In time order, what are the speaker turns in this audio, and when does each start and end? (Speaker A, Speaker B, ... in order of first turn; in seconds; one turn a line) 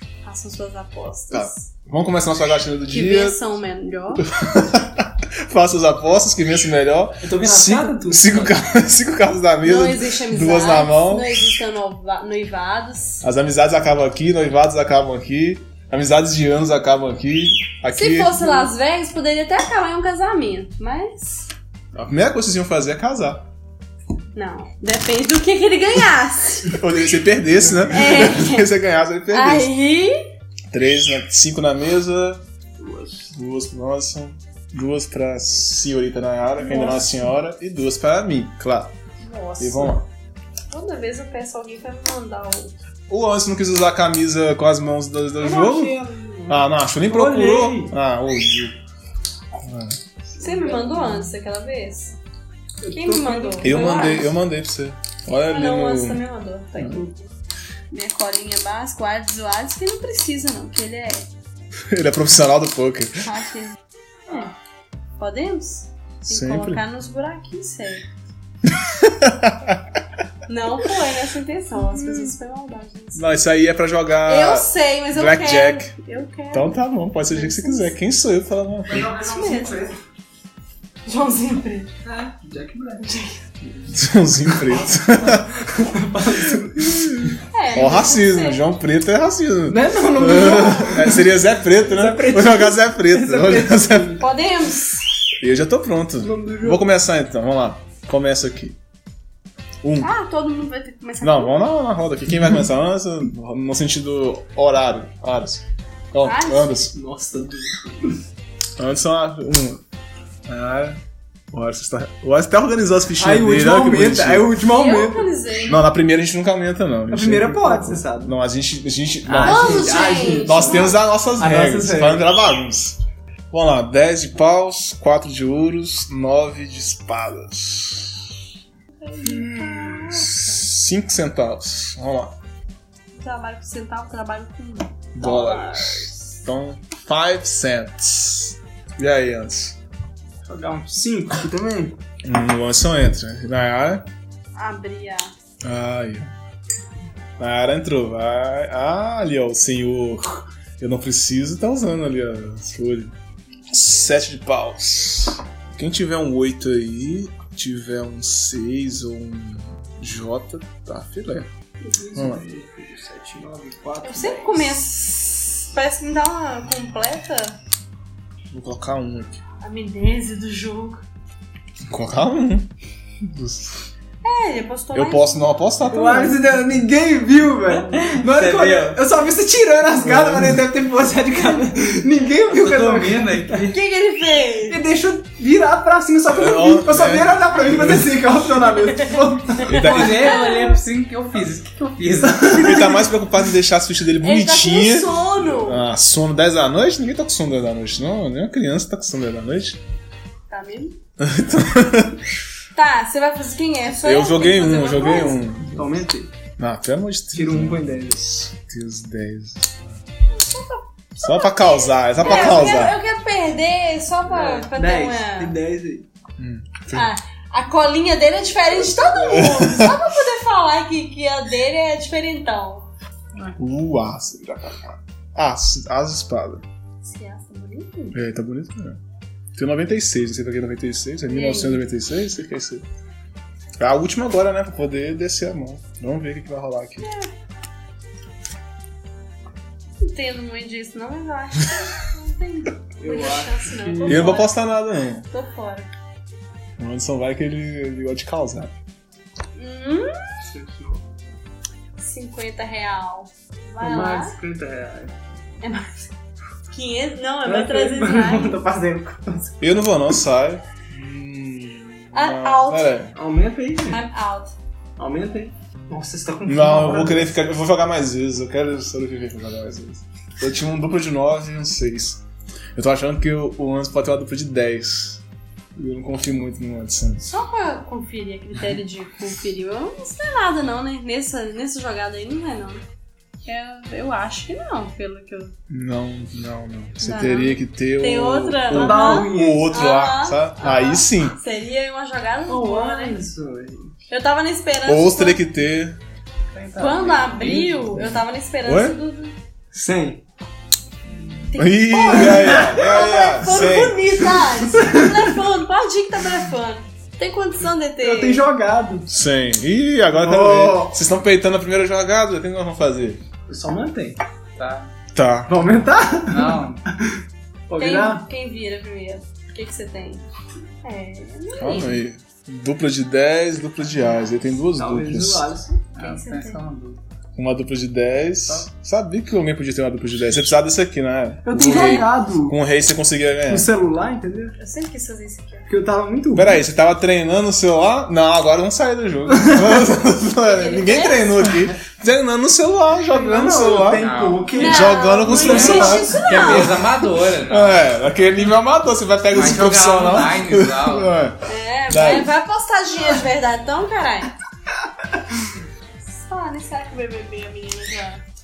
Speaker A: 0.2-1.7
Speaker B: 1.3-3.4
Speaker A: 2.9-4.2
Speaker B: 4.4-11.6
Speaker C: 7.2-8.5
Speaker A: 9.6-13.2
Speaker B: 13.2-18.5
Speaker A: 17.9-21.5
Speaker B: 21.9-23.4
Speaker A: 24.3-26.7
Speaker B: 26.7-29.7
Speaker A: 27.9-28.7
Speaker A: 29.3-30.1
Speaker B: 30.7-32.4
Speaker C: 32.8-33.3
Speaker B: 33.3-38.9
Speaker C: 39.2-39.9
Speaker B: 39.6-40.1
Speaker A: 40.7-42.7
Speaker B: 43.1-45.9
Speaker C: 45.4-47.9
Speaker B: 46.5-48.8
Speaker B: 49.5-50.0
Speaker C: 50.4-51.3
Speaker A: 50.4-52.2
Speaker C: 52.8-54.2
Speaker A: 52.9-54.3
Speaker B: 53.6-56.2
Speaker A: 55.4-57.2
Speaker A: 57.9-61.3
Speaker B: 61.9-63.3
Speaker A: 63.2-64.5
Speaker A: 65.2-68.0
Speaker B: 66.2-66.8
Speaker B: 68.7-69.8
Speaker A: 70.5-73.3
Speaker B: 73.2-75.9
Speaker A: 74.2-76.7
Speaker B: 76.5-79.1
Speaker A: 77.3-77.9
Speaker C: 78.9-80.0
Speaker A: 79.0-79.9
Speaker A: 81.0-81.9
Speaker C: 82.0-83.9
Speaker A: 83.1-83.3
Speaker B: 83.9-85.5
Speaker C: 84.7-87.3
Speaker B: 86.8-87.1
Speaker A: 87.5-88.6
Speaker B: 87.7-94.2
Speaker C: 89.7-94.2
Speaker A: 94.2-95.0
Speaker B: 95.4-98.8
Speaker C: 96.2-96.8
Speaker B: 99.8-100.1
Speaker A: 100.0-101.5
Speaker B: 101.2-106.9
Speaker A: 106.2-106.7
Speaker C: 106.9-108.2
Speaker B: 108.8-109.8
Speaker B: 110.5-111.0
Speaker B: 111.5-114.5
Speaker C: 113.2-115.3
Speaker A: 114.7-115.8
Speaker B: 115.6-123.0
Speaker C: 117.1-118.3
Speaker C: 119.2-122.3
Speaker A: 119.4-121.0
Speaker B: 123.5-128.3
Speaker A: 129.0-130.5
Speaker C: 129.2-130.2
Speaker B: 130.2-132.3
Speaker A: 133.1-136.3
Speaker B: 135.1-139.8
Speaker C: 140.4-142.0
Speaker B: 142.2-144.1
Speaker A: 144.5-145.3
Speaker B: 145.6-146.3
Speaker B: 147.4-153.1
Speaker B: 153.7-161.5
Speaker C: 161.8-164.8
Speaker B: 162.2-162.4
Speaker A: 164.0-167.6
Speaker B: 168.5-169.4
Speaker A: 169.6-171.0
Speaker B: 171.9-172.7
Speaker B: 173.2-173.9
Speaker A: 174.2-175.4
Speaker B: 174.9-176.4
Speaker C: 175.9-183.7
Speaker D: 178.0-179.0
Speaker B: 180.1-180.6
Speaker D: 182.4-183.7
Speaker A: 183.7-184.8
Speaker C: 184.7-190.2
Speaker B: 186.3-188.2
Speaker B: 189.7-190.4
Speaker A: 189.7-190.8
Speaker D: 189.7-192.8
Speaker C: 192.2-193.0
Speaker B: 192.5-199.8
Speaker A: 194.2-195.8
Speaker A: 200.5-200.9
Speaker B: 201.2-202.2
Speaker A: 202.7-205.4
Speaker B: 204.0-205.9
Speaker C: 205.7-206.3
Speaker B: 206.6-209.9
Speaker C: 207.3-208.4
Speaker A: 210.3-215.6
Speaker B: 211.2-212.9
Speaker C: 214.2-216.1
Speaker B: 216.4-217.1
Speaker A: 216.9-222.9
Speaker C: 218.6-219.5
Speaker B: 219.3-220.0
Speaker B: 223.6-226.6
Speaker A: 227.0-228.2
Speaker B: 228.1-229.0
Speaker B: 229.5-232.8
Speaker A: 231.3-231.8
Speaker B: 233.8-237.1
Speaker A: 237.0-237.3
Speaker A: 240.0-244.6
Speaker C: 243.0-244.3
Speaker B: 244.1-245.3
Speaker A: 245.3-245.9
Speaker B: 246.8-248.7
Speaker A: 249.5-250.1
Speaker C: 250.4-251.0
Speaker A: 252.0-254.3
Speaker C: 253.8-255.1
Speaker A: 255.6-256.1
Speaker A: 256.7-258.6
Speaker C: 257.4-260.1
Speaker B: 259.6-263.1
Speaker A: 262.1-262.9
Speaker C: 263.1-264.0
Speaker A: 263.9-264.5
Speaker C: 265.0-267.3
Speaker B: 266.4-272.2
Speaker B: 272.7-275.2
Speaker B: 275.7-277.3
Speaker A: 277.3-282.8
Speaker A: 283.4-285.5
Speaker B: 285.7-291.4
Speaker A: 287.0-293.2
Speaker C: 288.7-289.8
Speaker C: 292.5-293.9
Speaker A: 294.1-295.4
Speaker B: 294.8-296.0
Speaker D: 296.5-298.1
Speaker A: 296.8-299.3
Speaker B: 298.6-299.0
Speaker C: 299.7-300.2
Speaker A: 301.5-308.4
Speaker B: 301.6-304.0
Speaker C: 302.1-302.6
Speaker C: 304.4-305.4
Speaker C: 308.0-309.1
Speaker B: 309.1-313.2
Speaker C: 310.1-310.9
Speaker C: 313.5-314.2
Speaker D: 314.6-314.9
Speaker B: 315.1-315.5
Speaker C: 315.5-316.6
Speaker D: 316.3-316.8
Speaker C: 317.7-318.2
Speaker A: 317.8-320.2
Speaker A: 320.8-322.0
Speaker B: 321.6-325.5
Speaker C: 324.7-325.8
Speaker D: 325.9-327.0
Speaker A: 326.0-326.6
Speaker B: 327.4-333.7
Speaker C: 331.4-332.6
Speaker A: 331.6-332.1
Speaker C: 333.5-334.6
Speaker A: 334.6-335.7
Speaker C: 335.7-336.6
Speaker B: 336.3-344.1
Speaker C: 339.3-339.8
Speaker A: 340.4-341.5
Speaker C: 343.1-346.0
Speaker D: 343.9-344.5
Speaker A: 344.5-346.8
Speaker B: 344.6-346.5
Speaker D: 345.4-347.9
Speaker B: 347.5-352.3
Speaker D: 349.3-351.1
Speaker A: 351.4-354.3
Speaker A: 356.0-358.2